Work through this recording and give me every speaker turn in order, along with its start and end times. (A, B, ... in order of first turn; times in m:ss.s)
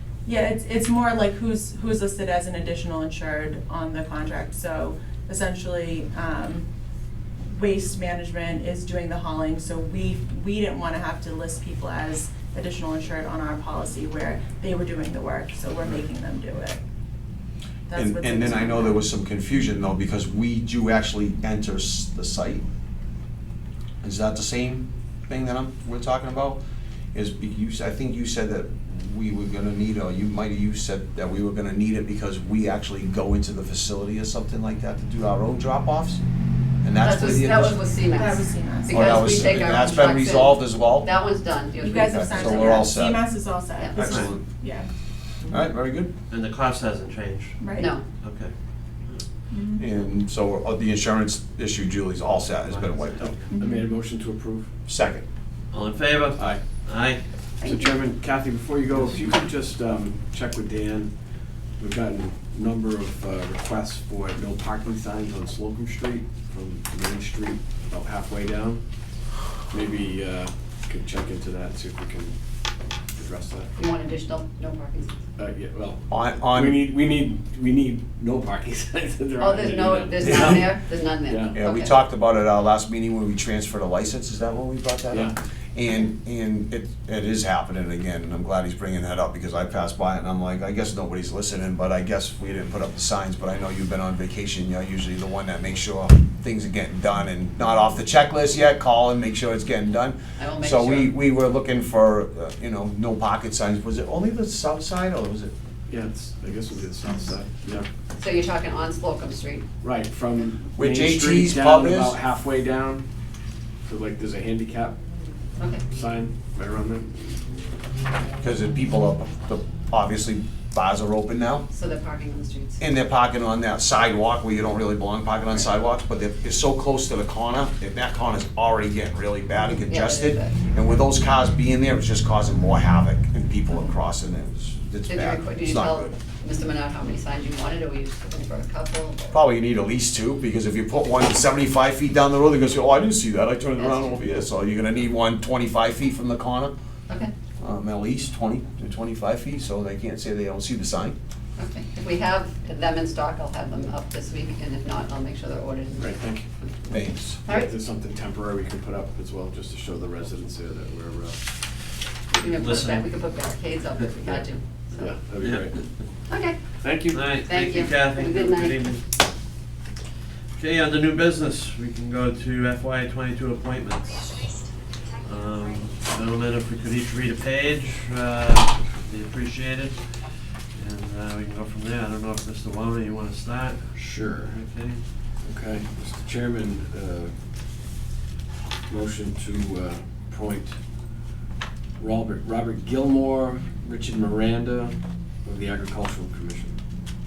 0:00.2-0:06.7 A
0:07.5-0:16.8 A
0:17.9-0:19.0 A
0:17.9-0:22.6 B
0:24.0-0:26.6 B
0:27.1-0:36.2 B
0:36.8-0:37.8 B
0:36.9-0:42.9 C
0:38.1-0:39.3 A
0:38.9-0:41.1 B
0:41.8-0:44.9 A
0:41.9-0:43.2 B
0:43.8-0:44.2 C
0:44.0-0:44.4 D
0:44.0-0:44.3 B
0:45.5-0:46.1 B
0:46.3-0:47.6 D
0:47.6-0:47.9 A
0:47.8-0:48.0 C
0:48.2-0:48.5 D
0:49.5-0:49.9 A
0:49.8-0:53.3 B
0:52.6-0:53.5 D
0:53.2-0:54.7 E
0:53.5-0:53.9 A
0:54.9-0:55.2 B
0:55.7-0:57.2 D
0:56.3-0:56.6 E
0:57.6-0:58.0 C
0:57.6-1:01.1 E
1:01.8-1:08.8 E
1:09.7-1:12.3 E
1:13.1-1:13.7 E
1:13.8-1:15.3 C
1:15.4-1:20.7 E
1:16.1-1:16.8 B
1:19.4-1:22.0 C
1:21.3-1:21.6 E
1:21.5-1:45.5 B
1:40.4-1:41.1 C
1:45.9-1:47.9 E
1:48.2-1:49.7 C
1:49.8-1:53.1 E
1:50.8-1:52.2 B
1:53.8-1:55.0 E
1:55.6-1:55.8 C
1:55.9-1:57.1 E
1:58.4-2:01.7 B
2:01.7-2:02.8 C
2:02.8-2:16.1 B
2:09.8-2:10.6 C
2:15.1-2:19.4 C
2:19.3-2:26.7 B
2:23.8-2:24.2 C
2:27.6-2:31.2 B
2:31.6-2:36.2 C
2:36.0-2:36.5 E
2:36.9-2:37.4 B
2:37.4-2:37.7 C
2:37.5-2:41.4 E
2:42.3-2:45.2 C
2:42.5-2:43.0 D
2:45.0-2:45.8 E
2:45.4-2:45.7 D
2:46.3-2:46.6 C
2:46.8-2:47.4 E
2:47.1-2:49.1 D
2:47.4-2:48.8 C
2:50.6-3:00.1 D
3:00.7-3:05.0 D
3:03.9-3:04.7 E
3:05.4-3:07.3 E
3:08.9-3:10.7 E
3:12.0-3:16.8 E